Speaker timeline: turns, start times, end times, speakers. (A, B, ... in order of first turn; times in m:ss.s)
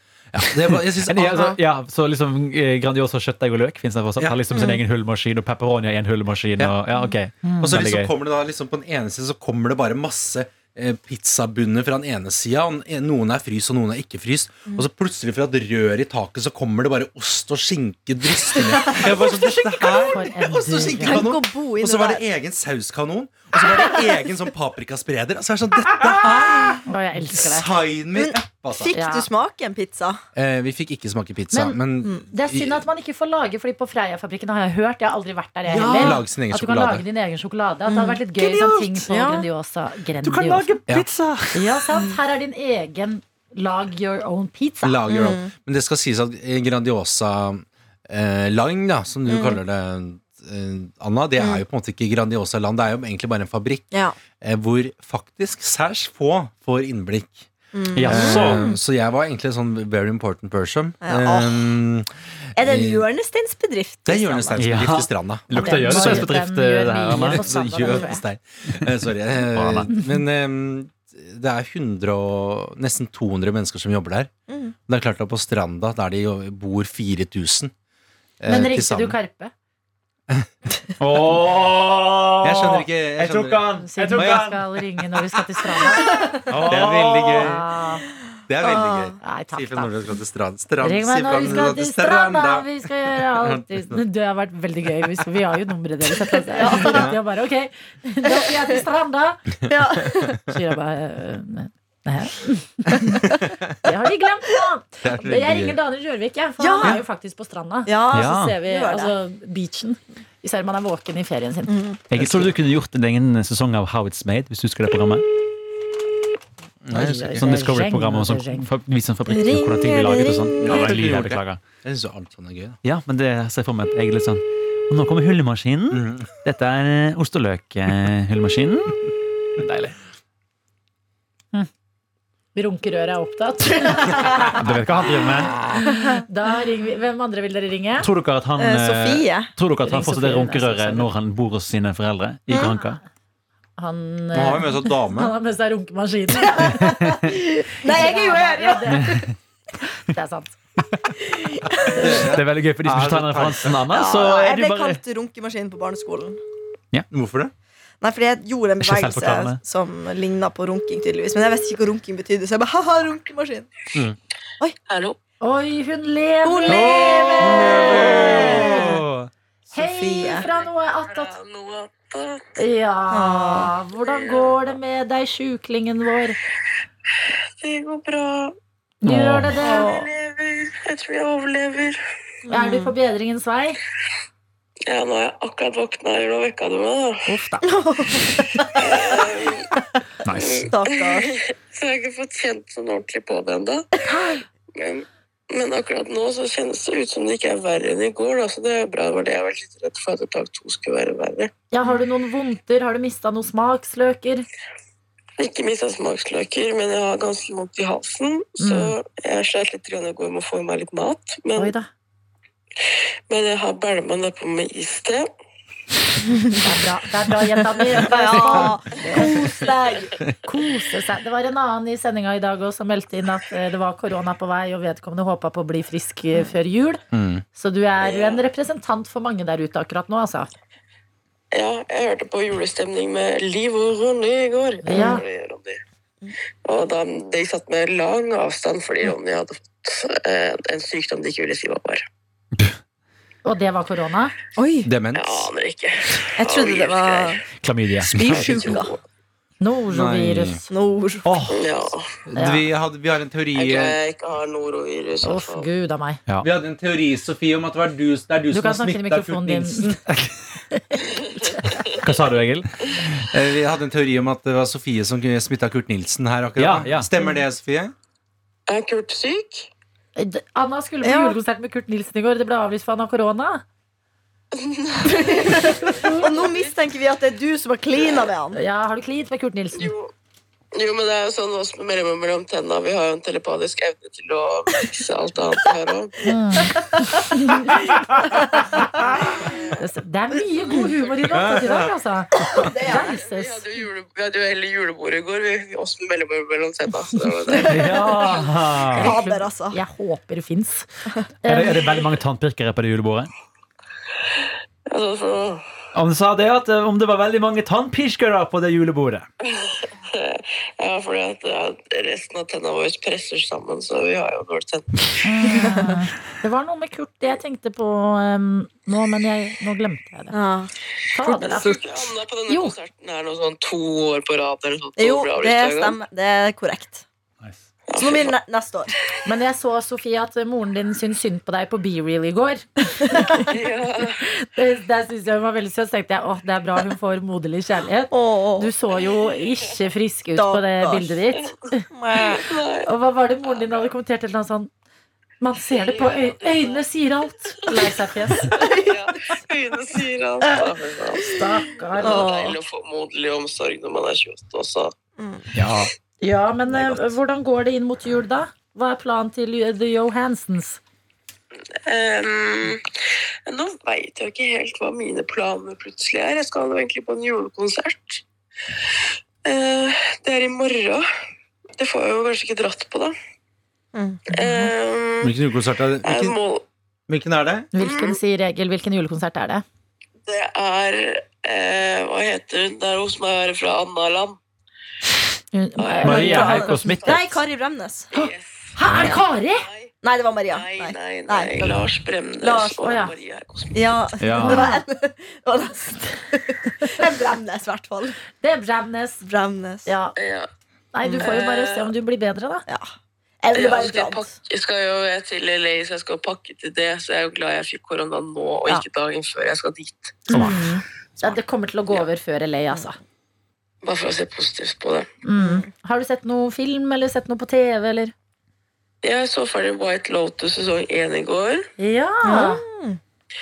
0:00.3-0:01.6 A
0:00.4-0:08.1 B
0:04.5-0:04.8 C
0:07.4-0:07.8 D
0:07.6-0:26.8 A
0:18.5-0:20.0 C
0:20.0-0:21.3 D
0:21.0-0:22.2 C
0:23.6-0:24.0 C
0:26.2-0:27.7 D
0:27.3-0:29.0 A
0:28.1-0:30.2 C
0:28.9-0:29.3 D
0:30.4-0:32.8 A
0:31.5-0:40.7 D
0:35.7-0:36.2 B
0:35.9-0:37.0 A
0:37.9-0:39.5 C
0:40.2-0:41.8 B
0:41.5-0:45.0 D
0:44.8-0:57.5 A
0:45.1-0:45.5 C
0:49.3-0:49.6 C
0:51.4-0:51.6 C
0:57.7-0:58.8 C
0:57.9-0:58.7 B
0:58.0-1:03.0 A
1:01.0-1:01.7 C
1:02.6-1:04.6 C
1:04.0-1:06.3 A
1:04.6-1:07.5 B
1:05.5-1:08.2 D
1:07.1-1:14.3 A
1:09.5-1:09.9 B
1:14.5-1:14.7 C
1:14.9-1:17.7 A
1:18.4-1:19.2 A
1:18.5-1:19.5 D
1:21.0-1:24.6 B
1:22.4-1:24.5 A
1:23.8-1:26.4 D
1:26.1-1:26.4 C
1:26.5-1:27.5 B
1:26.6-1:27.6 A
1:27.4-1:28.0 D
1:28.5-1:34.0 A
1:28.6-1:29.2 C
1:29.2-1:29.9 D
1:30.8-1:39.4 D
1:36.5-1:37.1 C
1:36.7-1:37.2 A
1:38.2-1:38.8 C
1:39.7-1:40.4 C
1:40.5-1:51.7 D
1:43.2-1:43.8 A
1:45.0-1:45.8 A
1:46.6-1:47.0 C
1:47.9-1:49.1 C
1:48.1-1:48.6 B
1:51.7-1:52.0 C
1:52.1-1:55.2 B
1:52.1-1:52.5 A
1:56.8-1:57.6 A
1:56.9-1:58.6 D
1:57.4-2:01.6 B
1:59.3-2:00.9 C
2:00.6-2:02.8 A
2:02.8-2:09.9 B
2:05.9-2:06.3 A
2:12.5-2:14.6 D
2:14.1-2:14.5 C
2:14.5-2:15.6 B
2:15.7-2:18.1 D
2:15.9-2:16.2 C
2:18.0-2:23.0 B
2:18.6-2:19.5 C
2:19.8-2:21.1 D
2:22.5-2:23.0 D
2:23.8-2:27.1 D
2:24.3-2:25.3 A
2:26.4-2:29.3 C
2:27.8-2:29.2 D
2:28.9-2:29.3 B
2:29.8-2:30.6 D
2:31.2-2:32.2 C
2:31.9-2:33.8 A
2:32.0-2:35.0 B
2:33.9-2:36.4 C
2:37.1-2:37.5 A
2:38.0-2:43.7 C
2:38.8-2:39.6 B
2:44.9-2:45.2 E
2:45.4-2:48.9 D
2:46.4-2:49.0 C
2:46.7-2:49.3 B
2:47.6-2:48.0 E
2:48.3-2:48.8 A
2:49.7-2:51.4 D
2:49.7-2:50.4 C
2:51.1-2:52.6 E
2:52.6-2:56.4 D
2:53.1-2:53.7 C
2:54.0-2:54.7 E
2:57.6-2:58.6 E
2:59.0-2:59.9 D
2:59.0-2:59.6 B
2:59.6-3:00.1 C
2:59.7-3:02.0 E
3:02.4-3:02.9 C
3:02.5-3:03.8 D
3:04.9-3:07.3 E
3:07.3-3:07.7 D
3:07.6-3:09.2 C
3:08.7-3:09.7 E
3:10.2-3:10.7 B
3:10.3-3:13.9 E
3:10.7-3:11.3 C
3:14.1-3:14.4 C
3:14.7-3:21.5 E
3:21.7-3:24.4 D
3:25.4-3:31.7 E
3:28.6-3:28.9 D
3:31.6-3:31.9 D
3:33.3-3:35.3 E
3:36.3-3:36.6 C
3:36.6-3:39.4 D
3:37.9-3:40.2 C
3:40.4-3:47.0 D
3:47.1-3:47.4 A
3:47.6-3:50.5 D
3:48.0-3:48.4 E
3:51.5-3:55.8 E
3:54.8-3:55.2 D
3:54.9-3:55.2 C
3:56.6-4:02.0 E
4:03.4-4:04.4 D
4:04.6-4:04.9 C
4:04.8-4:05.5 A
4:05.1-4:07.4 E
4:06.4-4:07.4 C
4:07.6-4:08.4 B
4:08.1-4:08.8 A
4:08.1-4:08.9 C
4:08.2-4:09.0 E
4:09.6-4:10.7 D
4:09.9-4:10.6 A
4:10.7-4:11.3 C
4:11.2-4:11.6 B
4:11.5-4:12.1 E
4:12.3-4:14.0 A
4:12.4-4:12.6 D
4:13.6-4:15.7 E
4:15.2-4:16.2 D
4:16.4-4:20.0 A
4:18.5-4:20.0 D
4:20.7-4:21.9 D
4:21.2-4:22.0 E
4:22.0-4:23.3 B
4:23.3-4:27.9 A
4:26.6-4:27.1 B
4:28.7-4:29.7 E
4:30.2-4:33.6 D
4:31.0-4:31.4 C
4:34.5-4:36.7 E
4:35.0-4:38.6 C
4:35.8-4:36.4 D
4:38.5-4:39.9 D
4:39.8-4:40.1 E
4:40.7-4:46.2 E
4:46.2-4:47.9 D
4:46.7-4:47.2 C
4:49.3-4:49.8 E
4:49.8-4:53.7 D
4:50.6-4:51.4 E
4:51.3-4:51.9 A
4:52.5-4:53.1 C
4:52.8-4:57.9 E
4:57.1-5:00.9 D
4:57.5-4:58.1 C
4:57.7-4:59.1 B
4:58.9-4:59.8 C
5:01.4-5:02.0 D
5:01.4-5:03.3 B
5:04.9-5:05.6 E
5:05.9-5:09.2 B
5:09.4-5:15.6 E
5:15.2-5:20.4 D
5:15.6-5:15.9 C
5:20.3-5:20.7 C
5:21.1-5:21.8 D
5:21.2-5:22.1 C
5:21.3-5:26.0 E
5:22.5-5:22.7 D
5:25.0-5:27.0 C
5:27.9-5:28.3 E
5:28.0-5:28.9 C
5:29.2-5:33.5 D
5:33.3-5:34.3 E
5:34.2-5:41.9 D
5:38.1-5:38.7 C
5:39.0-5:39.7 E
5:40.4-5:41.1 C
5:41.9-5:42.6 C
5:42.1-5:42.9 E
5:42.9-5:44.7 D
5:43.4-5:43.9 E
5:45.4-5:48.6 D
5:45.7-5:46.8 E
5:47.6-5:51.4 E
5:48.6-5:49.0 C
5:51.2-5:52.3 D
5:51.9-5:54.9 E
5:52.0-5:52.6 C
5:55.2-5:55.5 C
5:55.6-5:55.9 B
5:56.2-6:00.8 D
6:01.8-6:02.9 E
6:03.4-6:08.2 E
6:09.4-6:11.1 E
6:11.8-6:13.1 E
6:13.9-6:14.2 C
6:14.3-6:15.3 E
6:14.4-6:14.7 D
6:15.2-6:16.4 A
6:16.0-6:16.6 E
6:17.1-6:17.7 A
6:17.7-6:19.6 D
6:17.8-6:18.2 E
6:20.3-6:24.4 E
6:25.5-6:27.1 D
6:25.8-6:27.2 E
6:26.0-6:27.2 B
6:26.0-6:28.1 C
6:28.1-6:29.9 E
6:28.1-6:29.7 D
6:28.9-6:29.2 B
6:30.0-6:31.8 C
6:30.5-6:34.0 E
6:32.4-6:32.9 C
6:32.8-6:33.1 D
6:33.7-6:38.2 C
6:34.2-6:34.7 B
6:34.4-6:34.8 D
6:38.4-6:39.2 D
6:39.2-6:39.9 C
6:39.9-6:40.2 D
6:40.2-6:40.5 E
6:40.9-6:42.6 D
6:41.2-6:41.9 E
6:43.4-6:44.3 C
6:43.5-6:50.4 E
6:50.3-6:53.0 D
6:50.3-6:50.6 B
6:50.3-6:50.8 C
6:53.8-6:55.1 E
6:55.2-6:58.1 D
6:55.4-6:55.7 C
6:59.0-7:01.7 E
7:01.8-7:02.6 D
7:02.2-7:03.0 C